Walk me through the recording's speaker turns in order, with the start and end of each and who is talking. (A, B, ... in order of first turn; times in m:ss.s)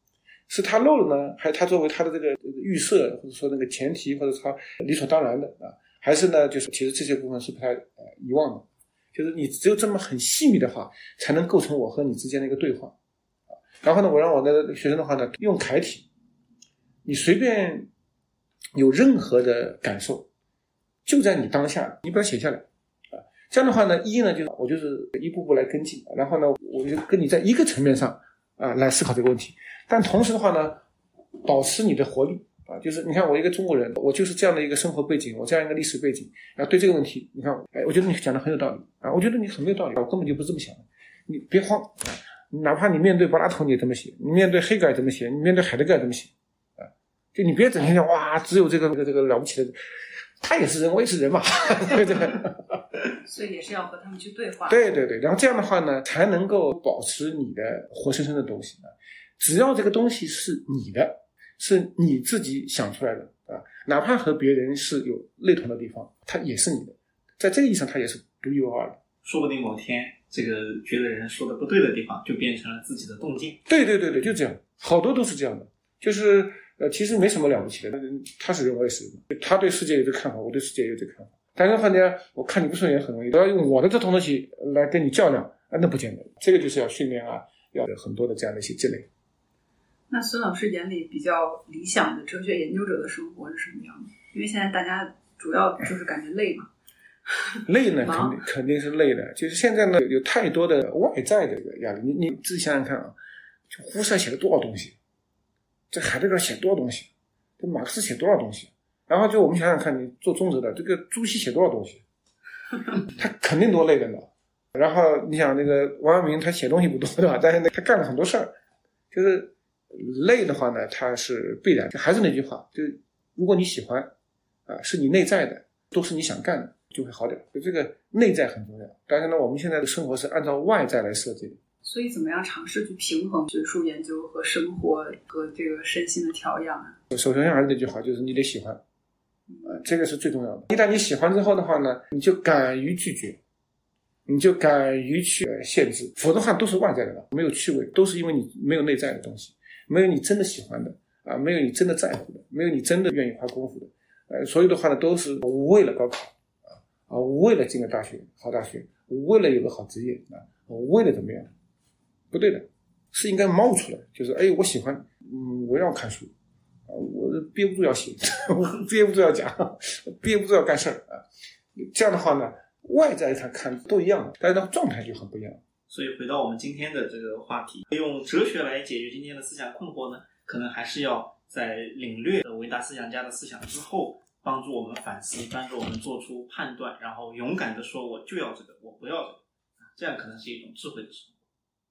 0:00.5-0:13.0 A
0:13.5-0:16.1 A
0:17.0-0:17.9 A
0:18.8-0:20.3 A
0:21.0-0:30.8 A
0:31.4-0:49.7 A
0:50.4-0:52.8 A
0:53.2-0:54.9 B
0:54.7-1:09.0 A
1:09.2-1:13.6 C
1:13.7-1:29.1 A
1:30.1-1:36.7 B
1:37.3-1:38.4 B
1:37.7-1:43.2 A
1:43.7-1:45.0 A
1:45.9-1:52.0 A
1:53.1-1:58.5 A
1:59.1-2:04.1 A
2:04.7-2:11.6 A
2:11.8-2:17.0 B
2:17.1-2:18.8 A
2:19.5-2:19.8 B
2:19.6-2:23.4 A
2:24.3-2:41.5 A
2:42.3-2:46.3 A
2:46.9-2:51.2 A
2:51.8-2:55.6 A
2:55.9-3:09.4 C
3:09.9-3:11.4 C